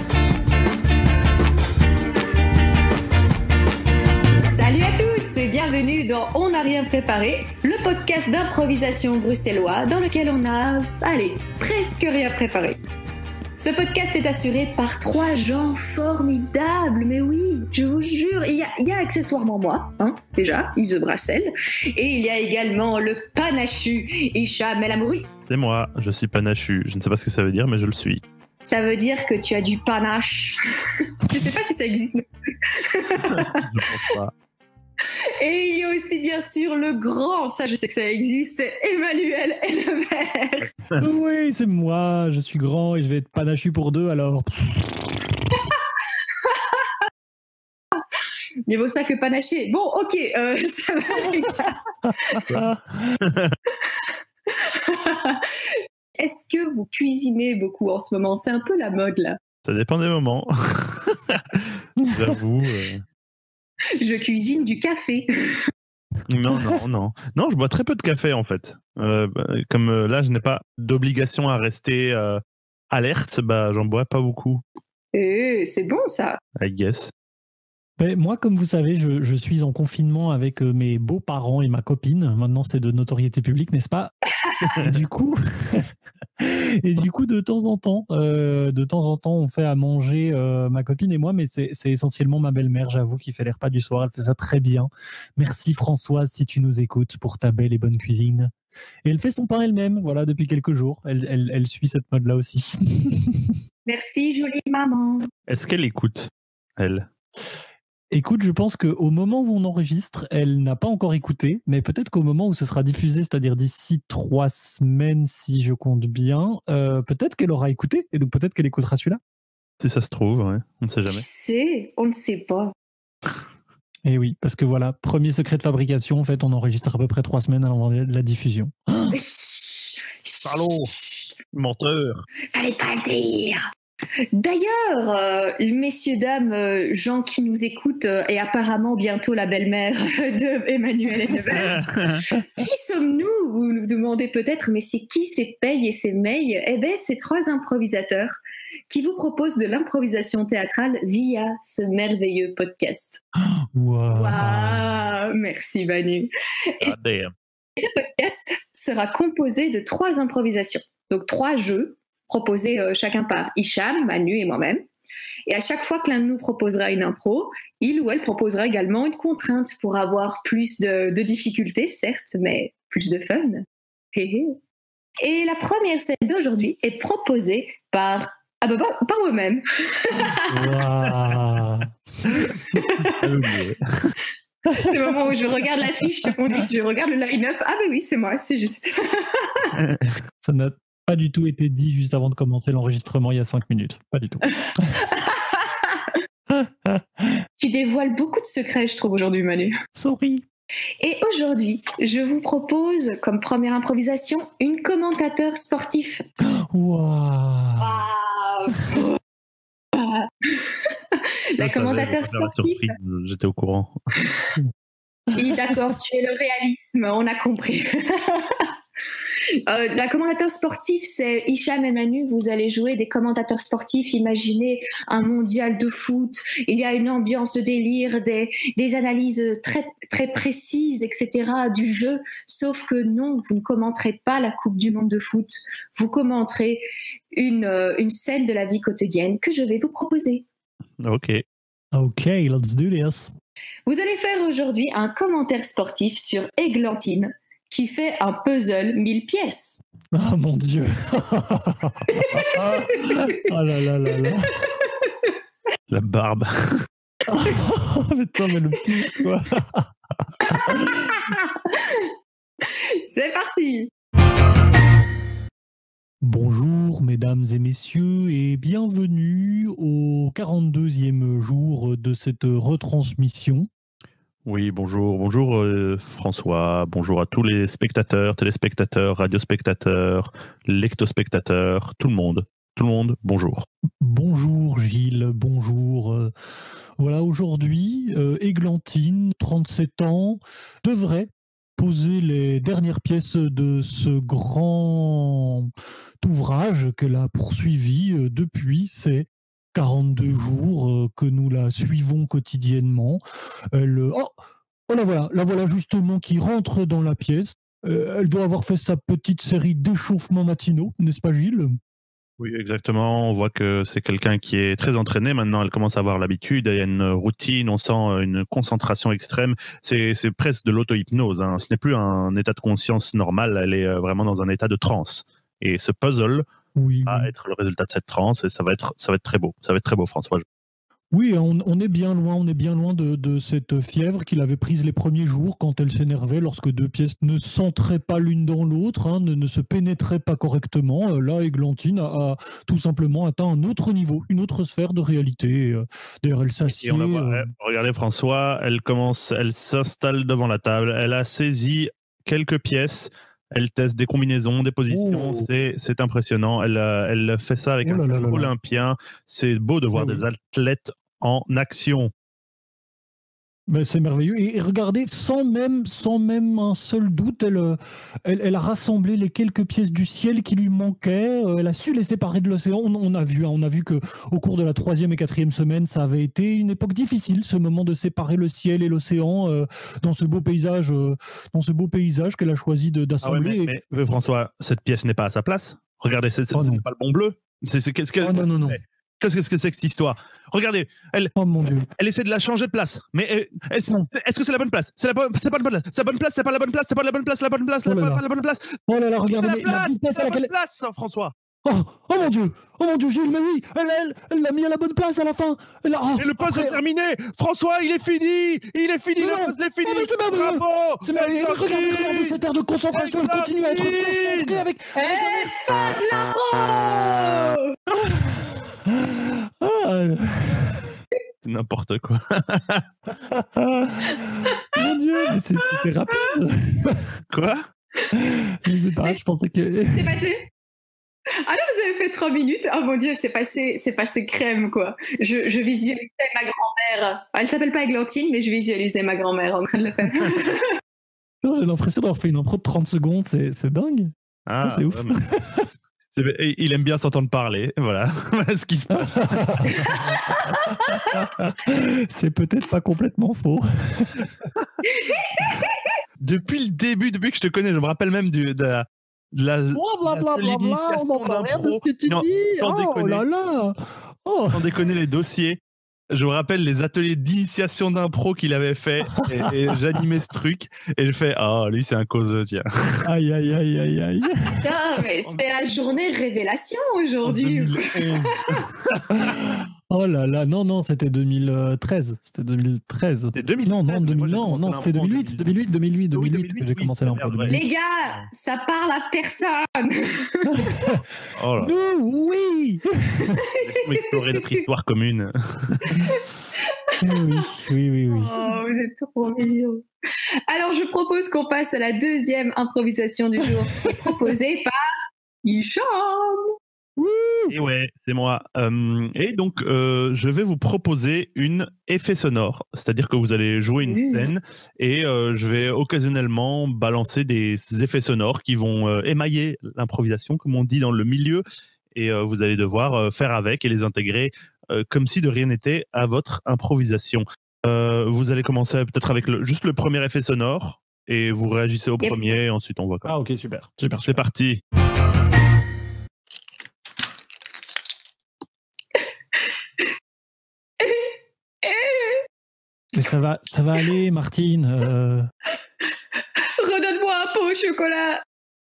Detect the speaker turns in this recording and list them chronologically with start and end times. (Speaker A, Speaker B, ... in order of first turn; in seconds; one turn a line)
Speaker A: 4.5-12.8
Speaker A: 13.6-25.3
Speaker B: 25.5-28.2
Speaker A: 28.6-33.7
Speaker B: 33.2-34.3
Speaker A: 35.4-40.7
Speaker C: 41.0-45.1
Speaker A: 46.4-46.9
Speaker A: 48.6-52.4
Speaker C: 52.0-53.2
Speaker B: 53.2-53.6
Speaker A: 53.9-59.4
Speaker B: 59.6-63.0
Speaker C: 62.0-62.3
Speaker A: 64.0-65.7
Speaker B: 66.3-72.4
Speaker B: 72.9-74.6
Speaker A: 75.1-76.4
Speaker B: 76.6-77.1
Speaker C: 78.0-84.1
Speaker B: 84.7-84.9
Speaker C: 84.7-98.5
Speaker C: 99.0-103.5
Speaker A: 103.8-105.3
Speaker B: 105.5-107.1
Speaker C: 108.1-119.2
Speaker B: 119.8-121.2
Speaker A: 121.1-122.7
Speaker C: 124.0-129.2
Speaker A: 129.1-131.3
Speaker B: 130.4-130.9
Speaker B: 131.5-132.2
Speaker A: 132.5-133.7
Speaker A: 134.3-141.8
Speaker B: 141.5-142.3
Speaker A: 142.5-153.2
Speaker C: 153.6-155.0
Speaker A: 154.1-156.9
Speaker B: 156.8-157.3
Speaker A: 157.8-164.8
Speaker A: 165.5-174.6
Speaker A: 175.2-180.6
Speaker C: 180.4-182.5
Speaker A: 182.7-183.3
Speaker B: 183.0-184.1
Speaker C: 184.7-185.1
Speaker A: 184.7-189.7
Speaker B: 189.7-190.1
Speaker C: 190.4-195.0
Speaker A: 195.0-196.2
Speaker C: 196.5-197.4
Speaker A: 197.6-199.8
Speaker C: 199.9-200.4
Speaker A: 201.0-206.2
Speaker C: 206.4-208.1
Speaker A: 207.8-209.2
Speaker A: 209.9-212.9
Speaker B: 211.6-213.9
Speaker A: 215.3-218.7
Speaker A: 219.7-240.4
Speaker B: 241.0-241.4
Speaker C: 241.9-243.3
Speaker A: 243.8-249.8
Speaker C: 250.1-254.6
Speaker A: 252.1-253.4
Speaker A: 254.9-255.3
Speaker B: 255.9-256.8
Speaker C: 257.3-261.3
Speaker A: 261.1-262.1
Speaker A: 262.9-263.9
Speaker C: 266.2-273.7
Speaker B: 274.4-283.6
Speaker C: 284.0-286.3
Speaker C: 287.0-303.2
Speaker C: 303.7-304.3
Speaker C: 304.9-311.8
Speaker B: 312.4-326.4
Speaker C: 326.7-327.3
Speaker B: 327.1-330.4
Speaker C: 331.1-347.5
Speaker B: 346.7-362.1
Speaker C: 354.9-355.5
Speaker C: 357.8-358.5
Speaker C: 359.9-360.2
Speaker C: 363.7-383.7
Speaker B: 383.2-391.3
Speaker C: 386.5-386.8
Speaker C: 388.2-388.8
Speaker C: 391.4-391.9
Speaker B: 392.0-398.8
Speaker C: 397.8-398.2
Speaker C: 398.9-400.5
Speaker B: 399.3-401.3
Speaker C: 401.6-406.8
Speaker B: 406.2-412.4
Speaker C: 409.2-415.6
Speaker B: 412.9-414.6
Speaker A: 414.9-417.8
Speaker C: 417.9-421.0
Speaker B: 421.4-422.9
Speaker C: 423.2-427.2
Speaker A: 425.7-426.3
Speaker B: 427.3-427.6
Speaker C: 428.1-430.1
Speaker A: 429.9-430.5
Speaker A: 431.4-440.8
Speaker C: 441.4-445.7
Speaker B: 444.5-445.2
Speaker B: 446.1-449.9
Speaker C: 448.9-454.3
Speaker A: 454.9-455.8
Speaker B: 456.2-463.3
Speaker C: 459.7-464.6
Speaker B: 464.5-473.0
Speaker C: 469.1-469.5
Speaker C: 473.0-474.7
Speaker A: 474.6-478.3
Speaker B: 477.2-479.2
Speaker C: 479.1-487.6
Speaker B: 483.3-485.5
Speaker B: 486.1-488.2
Speaker A: 487.5-490.8
Speaker C: 490.4-491.0
Speaker B: 491.3-491.7
Speaker C: 491.6-493.4
Speaker A: 493.4-494.6
Speaker B: 493.6-496.0
Speaker A: 496.1-497.5
Speaker C: 497.0-498.6
Speaker A: 498.1-499.9
Speaker A: 500.5-504.8
Speaker C: 503.8-504.1
Speaker A: 505.4-506.5
Speaker C: 507.0-507.5
Speaker B: 507.5-533.1
Speaker A: 513.8-514.3
Speaker C: 533.0-534.2
Speaker B: 534.0-534.6
Speaker A: 540.8-541.1
Speaker A: 541.6-542.2
Speaker C: 542.9-545.3
Speaker A: 546.4-548.2